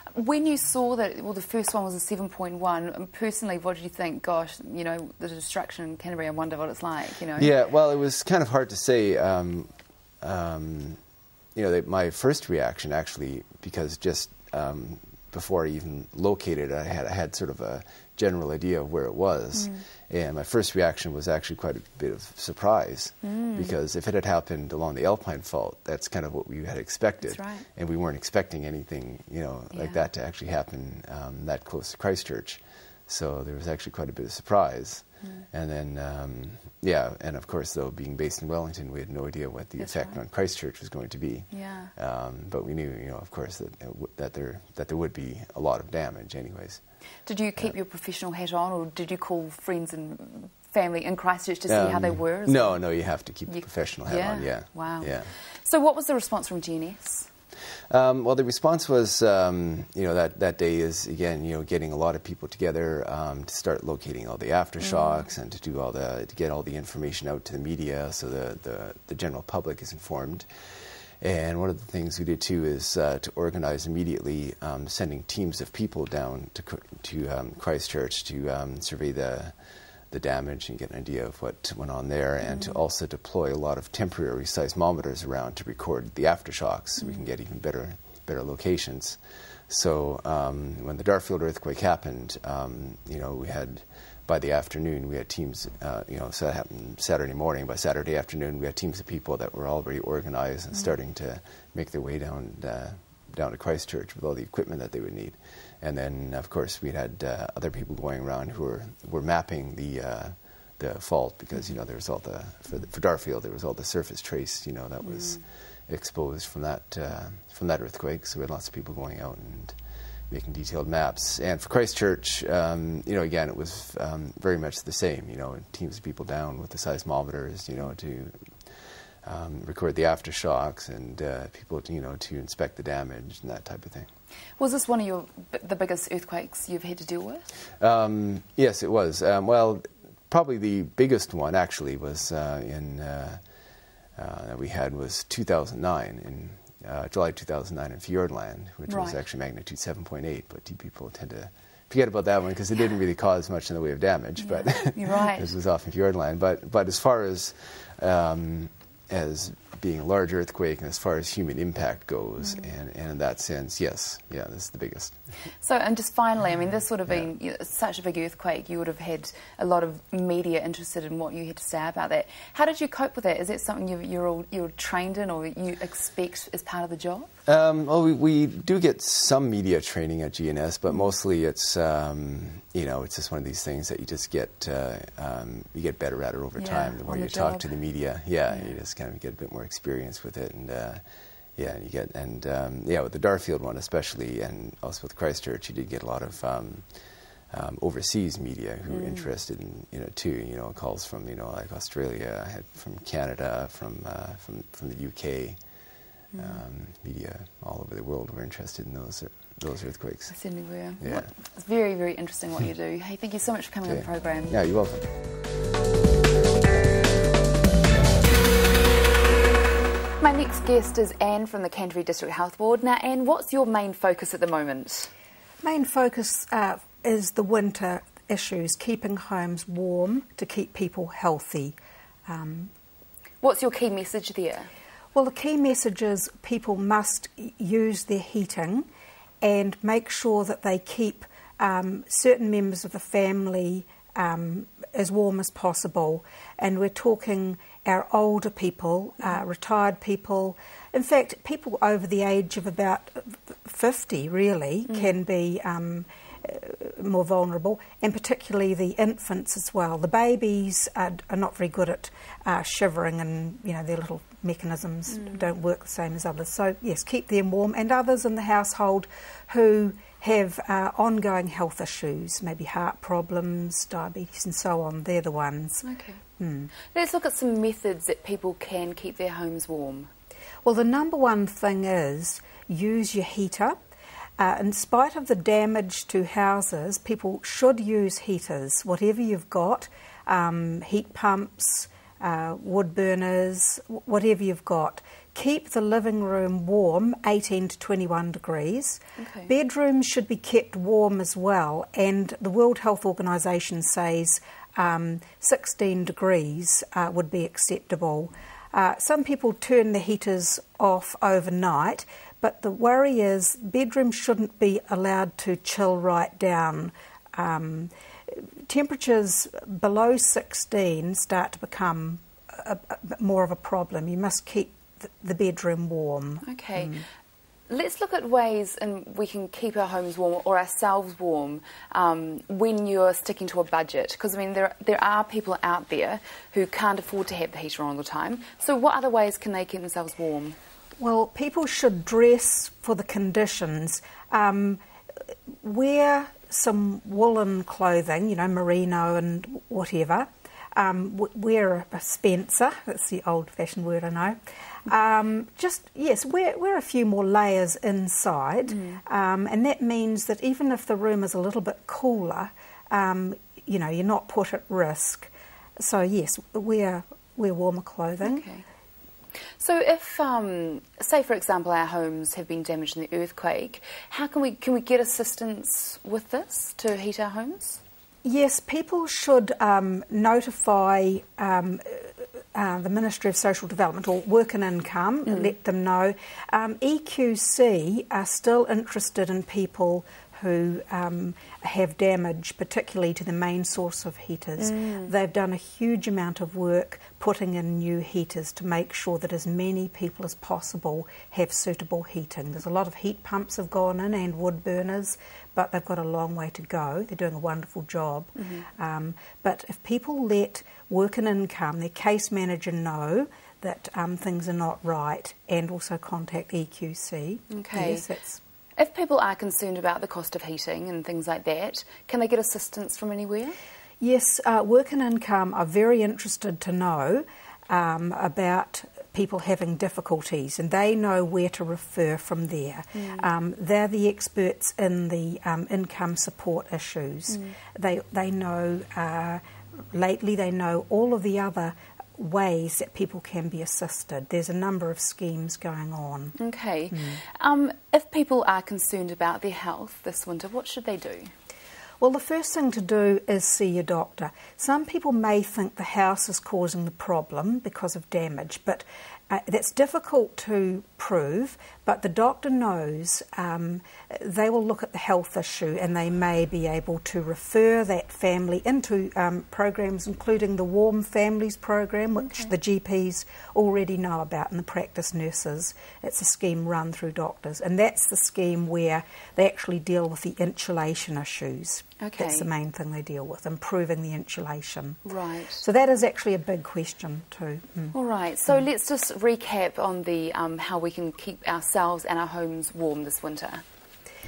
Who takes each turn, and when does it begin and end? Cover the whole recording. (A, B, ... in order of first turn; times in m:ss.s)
0:00.1-0:07.6 A
0:07.4-0:11.0 B
0:11.6-0:46.8 B
0:19.5-0:19.8 A
0:23.2-0:23.7 A
0:27.2-0:27.7 A
0:29.7-0:30.0 A
0:39.8-0:40.2 A
0:41.5-0:41.9 A
0:47.3-0:52.8 A
0:51.7-0:55.3 B
0:53.5-0:57.3 A
0:57.9-1:10.5 B
1:04.8-1:05.2 A
1:11.2-1:19.6 B
1:20.1-1:59.8 B
1:22.4-1:22.8 A
1:27.0-1:27.2 A
1:55.0-1:55.4 A
2:00.3-2:08.5 B
2:09.2-2:14.1 B
2:14.6-2:17.4 A
2:17.8-2:23.4 B
2:24.2-2:45.2 B
2:28.9-2:29.2 A
2:34.4-2:35.5 A
2:45.6-2:57.3 A
2:57.5-3:11.0 B
3:06.6-3:07.7 A
3:08.5-3:08.7 A
3:11.6-3:16.9 B
3:17.5-3:25.6 B
3:18.9-3:19.3 A
3:26.3-3:26.6 A
3:26.4-3:30.4 B
3:30.3-3:34.6 A
3:31.0-3:31.3 B
3:33.8-3:35.0 B
3:40.2-3:45.1 A
3:45.6-3:51.8 C
3:52.3-3:52.7 C
3:53.4-3:54.7 A
3:55.1-3:58.9 C
3:59.4-4:35.8 C
4:14.9-4:15.2 A
4:25.1-4:25.5 A
4:35.8-4:36.2 A
4:36.4-4:36.7 C
4:36.8-4:40.1 A
4:40.6-4:43.8 C
4:44.4-5:27.0 C
4:59.2-4:59.5 A
5:26.4-5:27.0 A
5:27.7-5:40.6 A
5:41.0-5:44.8 C
5:45.6-6:08.4 C
5:58.7-5:59.0 A
6:08.2-6:08.6 A
6:09.6-6:17.8 A
6:18.2-6:58.4 C
6:25.3-6:25.5 A
6:34.6-6:35.1 A
6:48.4-6:48.7 A
6:57.5-6:58.0 A
6:58.8-7:03.6 A
7:04.0-7:19.4 C
7:13.0-7:13.3 A
7:17.3-7:17.6 A
7:19.9-7:26.4 C
7:26.4-7:31.3 A
7:26.9-7:27.2 C
7:32.0-8:05.0 C
7:52.2-7:52.5 A
8:02.0-8:02.5 A
8:05.0-8:05.6 A
8:05.6-8:08.0 C
8:07.9-8:13.6 A